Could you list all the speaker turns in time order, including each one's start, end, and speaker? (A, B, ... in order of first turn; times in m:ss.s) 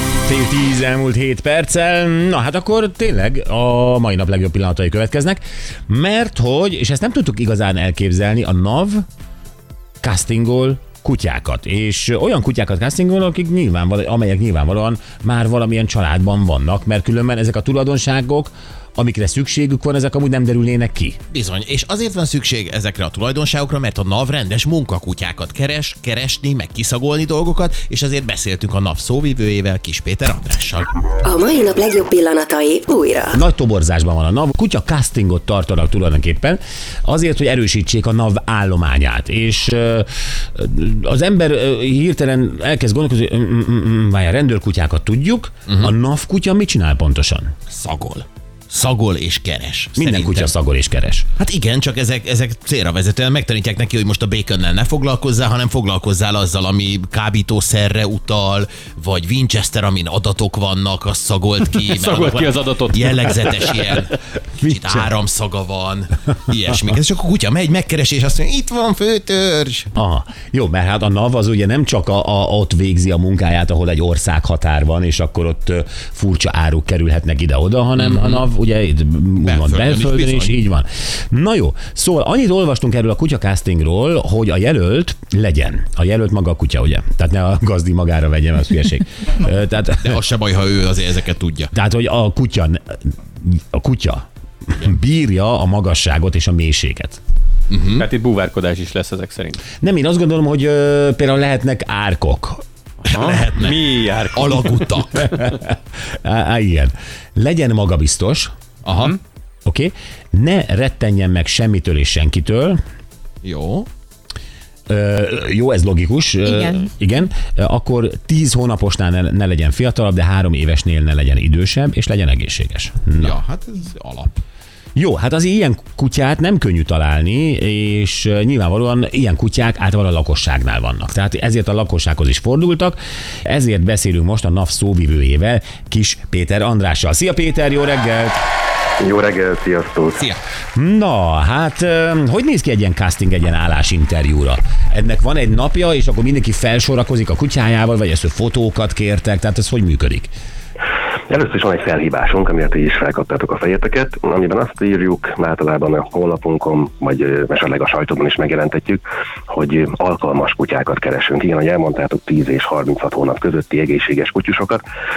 0:00.2-0:09.0 A
0:10.0-0:21.2 A
0:21.3-0:30.9 B
0:31.2-0:33.3 C
0:33.3-0:47.5 A
0:47.7-0:50.5 B
0:50.0-0:51.3 A
0:51.4-1:09.9 B
1:01.8-1:03.9 D
1:04.6-1:05.1 A
1:09.9-1:30.2 A
1:18.0-1:18.4 B
1:19.4-1:20.5 B
1:30.0-1:31.7 B
1:31.7-1:37.2 A
1:37.7-1:38.0 B
1:37.8-1:39.6 D
1:39.8-1:42.6 A
1:43.0-1:44.8 D
1:43.1-1:45.3 B
1:45.3-1:48.5 A
1:48.8-1:49.2 B
1:49.6-1:52.8 A
1:53.4-1:53.9 B
1:54.9-2:03.4 A
2:03.2-2:04.3 B
2:04.9-2:18.4 A
2:19.0-2:20.3 E
2:20.7-2:30.3 A
2:31.3-2:44.8 E